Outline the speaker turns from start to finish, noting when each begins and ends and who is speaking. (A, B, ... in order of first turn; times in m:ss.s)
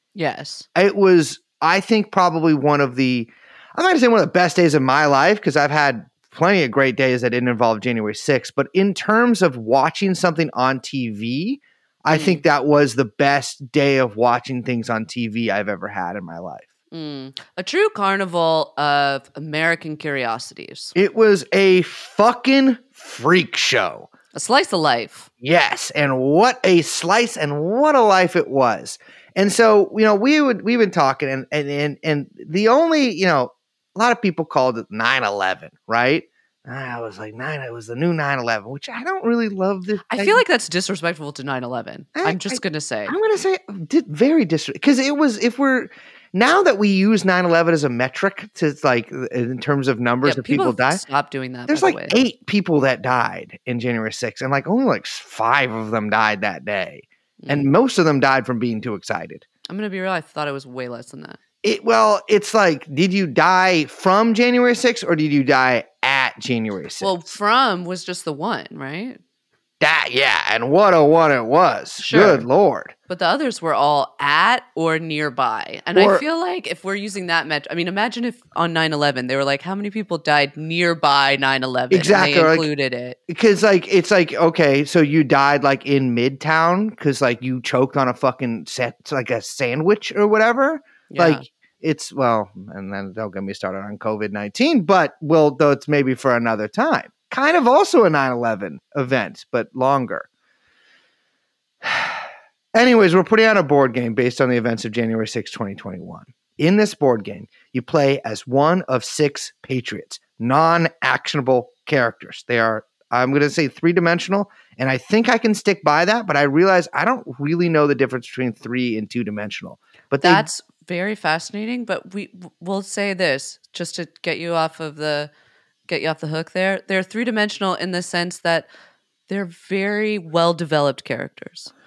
0:00.1-0:00.7 A
0:00.8-0:16.7 B
0:12.1-0:12.4 A
0:16.9-0:21.0 A
0:20.9-0:24.1 B
0:24.3-0:25.3 A
0:25.4-0:40.4 B
0:40.1-0:43.2 A
0:42.2-0:51.0 B
0:50.2-0:52.2 A
0:51.7-0:59.4 B
0:57.4-0:57.7 A
0:59.7-1:01.4 A
1:01.6-1:07.3 B
1:07.0-1:09.2 A
1:09.8-1:12.9 B
1:12.0-1:12.5 A
1:13.1-1:23.2 A
1:15.9-1:16.2 B
1:21.9-1:22.7 B
1:23.3-1:40.3 B
1:31.1-1:31.4 A
1:41.8-1:42.2 B
1:42.7-2:00.5 B
2:00.2-2:05.3 A
2:05.9-2:08.7 A
2:09.3-2:11.7 A